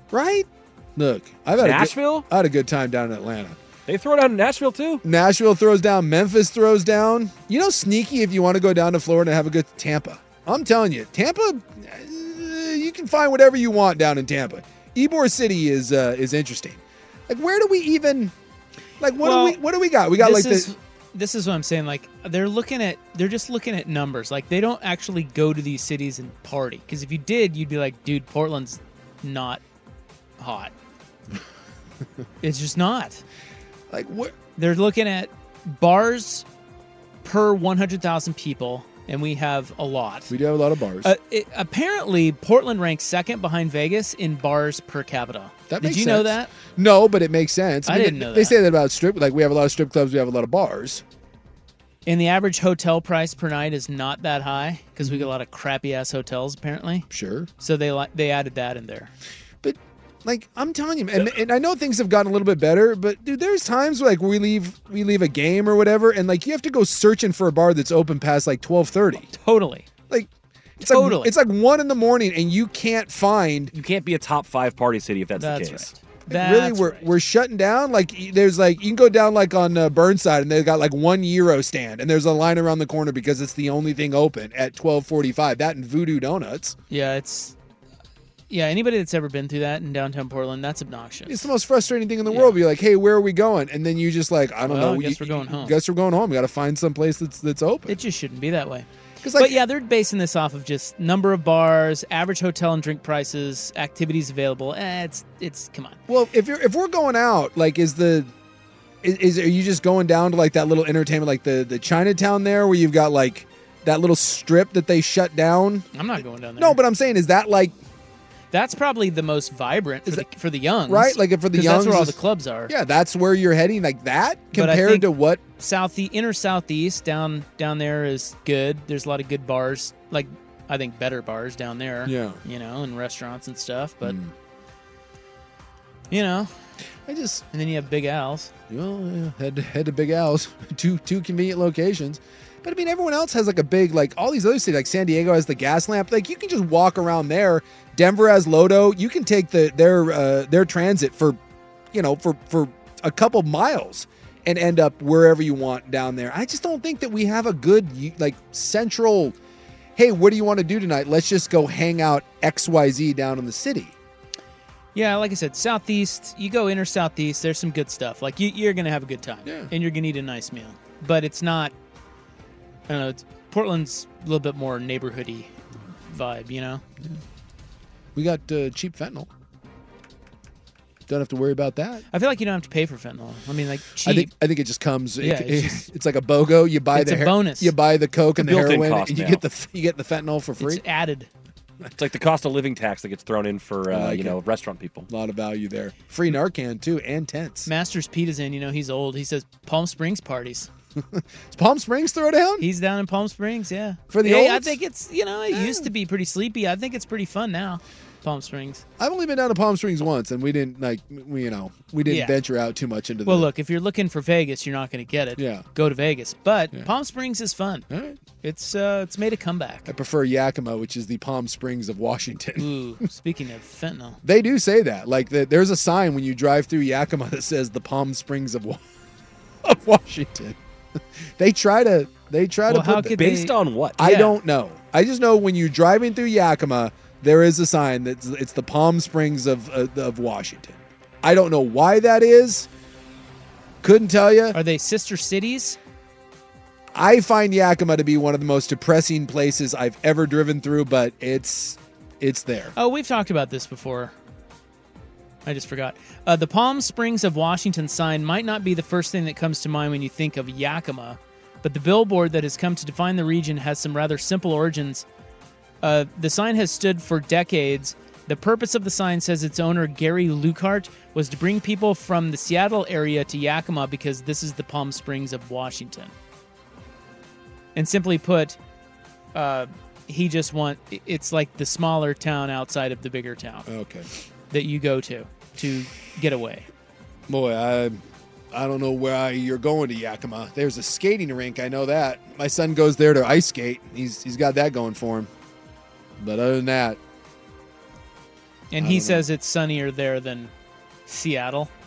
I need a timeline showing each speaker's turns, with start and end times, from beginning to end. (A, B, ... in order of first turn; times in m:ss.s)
0:00.1-0:03.6 A
0:01.6-0:02.3 B
0:03.9-0:05.0 B
0:05.0-0:18.3 A
0:19.0-0:20.7 A
0:19.2-0:19.6 C
0:20.2-0:29.6 C
0:30.4-0:30.7 C
0:32.4-0:33.2 C
0:33.9-0:34.4 A
0:34.6-0:36.4 C
0:37.2-0:40.3 C
0:40.3-0:41.1 A
0:41.0-0:46.5 C
0:45.7-0:51.0 A
0:47.9-0:48.6 C
0:52.1-0:57.1 C
0:55.0-0:55.3 A
0:57.1-0:57.5 A
0:57.6-0:59.1 C
0:59.6-1:09.3 A
1:09.3-1:09.9 C
1:10.1-1:13.7 A
1:10.8-1:11.3 C
1:13.7-1:15.9 B
1:15.4-1:17.1 C
1:16.3-1:26.8 A
1:26.9-1:27.6 C
1:28.5-1:31.5 C
1:31.3-1:38.0 A
1:32.3-1:32.6 C
1:34.7-1:35.8 C
1:37.9-1:46.0 C
1:39.2-1:39.6 A
1:46.1-1:48.3 A
1:49.0-1:55.9 A
1:55.9-1:56.8 C
1:56.6-1:57.8 A
1:58.5-2:02.7 C
2:00.9-2:05.4 A
2:04.5-2:14.2 C
2:12.0-2:12.4 A
2:14.0-2:14.3 A
2:16.1-2:16.5 C
2:17.1-2:17.4 A
2:17.5-2:18.5 C
2:18.7-2:31.4 A
2:31.9-2:39.4 A
2:40.0-2:44.0 A
2:45.0-2:51.7 C
2:49.4-2:49.7 A
2:52.9-2:55.6 C
2:56.1-2:56.8 C
2:58.2-2:59.3 A
3:01.1-3:02.1 A
3:02.1-3:04.3 C
3:04.0-3:10.8 A
3:05.2-3:05.9 C
3:06.9-3:07.7 C
3:08.4-3:09.4 B
3:10.6-3:11.3 C
3:12.0-3:15.1 B
3:13.9-3:14.4 A
3:15.1-3:17.7 A
3:17.7-3:20.7 C
3:21.0-3:22.7 A
3:22.6-3:28.8 C
3:24.1-3:24.8 A
3:25.5-3:25.9 A
3:29.0-3:33.5 A
3:32.1-3:32.4 C
3:33.2-3:37.9 C
3:35.4-3:35.7 A
3:37.9-3:38.2 A
3:38.4-3:39.9 C
3:39.9-3:42.7 A
3:42.6-3:44.2 C
3:44.2-3:48.8 A
3:49.6-3:50.6 A
3:51.4-3:53.2 A
3:52.7-3:54.4 C
3:53.1-3:54.0 B
3:54.0-4:02.7 A
4:03.8-4:04.6 A
4:04.5-4:05.8 C
4:06.9-4:12.7 A
4:12.8-4:14.2 C
4:15.5-4:25.1 C
4:25.8-4:36.1 C
4:37.8-4:38.6 C
4:39.3-4:43.7 C
4:43.7-4:44.1 A
4:44.5-4:46.7 C
4:47.3-4:55.3 A
4:56.2-4:57.0 A
4:58.7-5:00.5 C
4:58.8-4:59.3 A
5:01.1-5:01.7 C